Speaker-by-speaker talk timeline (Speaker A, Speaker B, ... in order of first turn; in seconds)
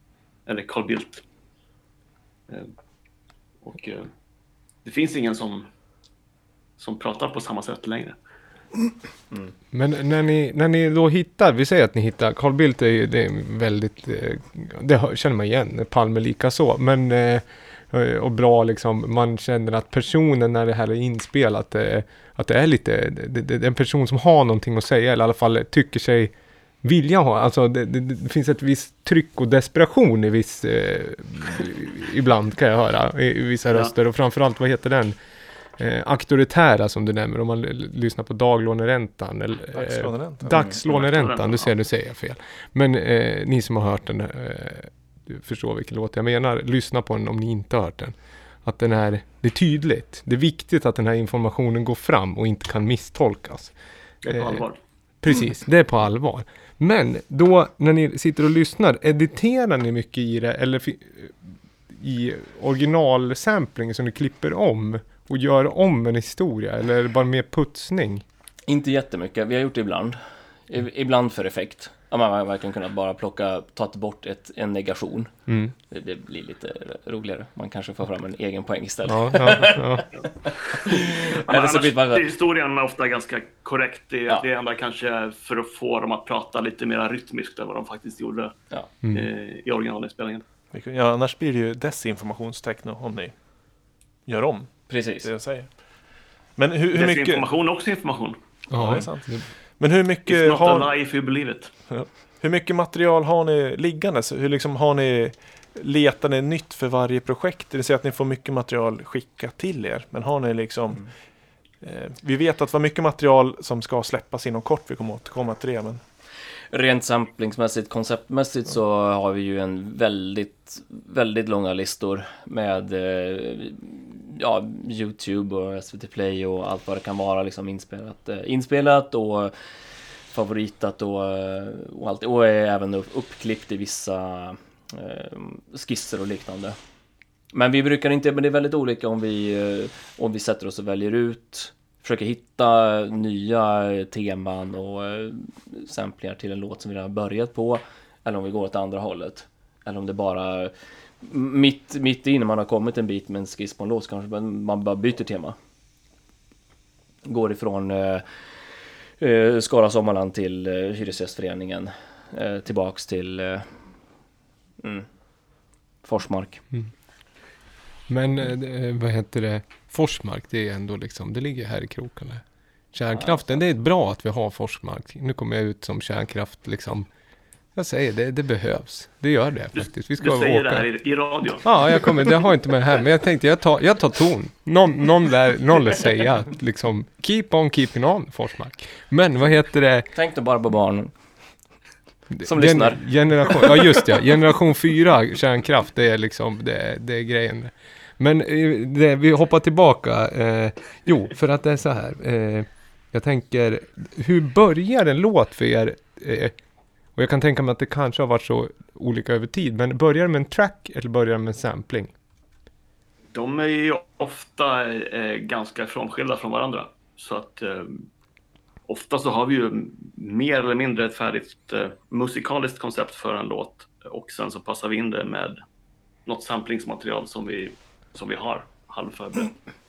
Speaker A: 0.5-1.2, 3.6-4.1, 4.8-5.7, 6.8-8.2, 40.9-41.7, 54.2-54.8, 80.8-88.5, 89.1-90.4, 96.9-98.4, 100.3-101.7, 179.7-181.7, 213.3-218.1, 218.9-225.6, 226.2-229.5
Speaker B: 9.7-35.2, 35.8-53.7, 54.2-54.6, 55.2-68.2, 75.5-75.7, 79.1-80.0, 98.7-99.5, 168.1-177.1, 177.7-180.9, 181.6-190.1, 192.3-206.5, 207.2-212.1
Speaker C: 39.7-40.6, 90.7-93.3, 94.3-95.7, 96.6-97.4, 98.7-100.9, 101.9-111.1, 111.8-116.0
Speaker D: 40.5-40.8, 68.7-75.3, 75.9-79.8, 80.5-82.2, 94.9-95.3, 116.7-129.5, 130.3-136.8, 137.5-155.6, 157.2-158.2, 159.2-163.8, 164.8-165.1, 166.0-166.6, 173.1-173.6, 190.1-191.1, 192.4-193.8